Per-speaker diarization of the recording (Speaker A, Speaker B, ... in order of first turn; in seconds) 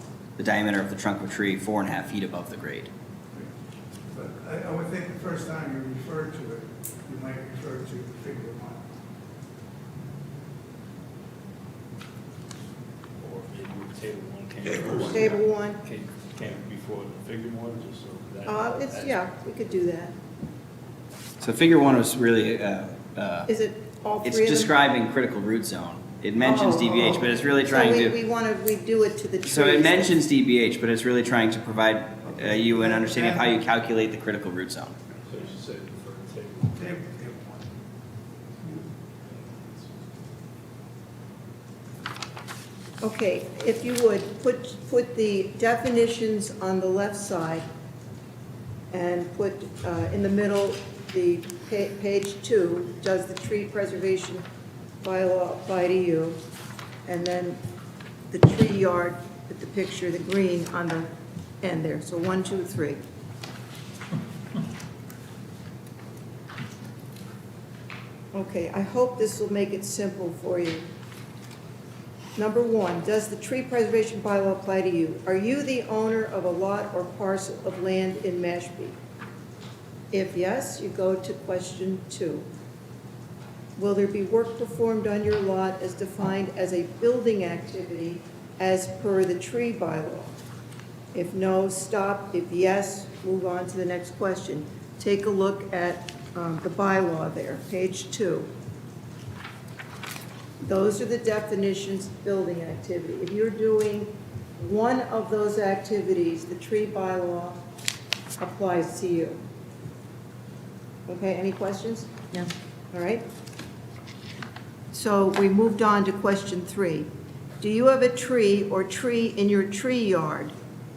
Speaker A: 0.4-2.9, 21.4-23.5, 24.2-28.1, 29.4-35.0
Speaker B: 4.1-8.8, 32.4-33.5, 36.8-37.7
Speaker C: 13.2-19.2, 35.3-36.9, 38.6-40.0
Speaker D: 14.9-15.8, 18.5-20.1, 23.5-24.7, 26.4-30.2, 43.0-47.6, 48.9-54.4, 55.0-56.4, 57.0-57.6, 58.3-61.1, 61.6-63.0, 68.3-70.8, 72.3-79.0, 80.1-82.5, 83.8-90.3, 91.1-98.5, 100.6-107.6, 108.4-109.4, 111.1-112.1, 112.9-113.2, 114.9-117.1, 117.6-120.5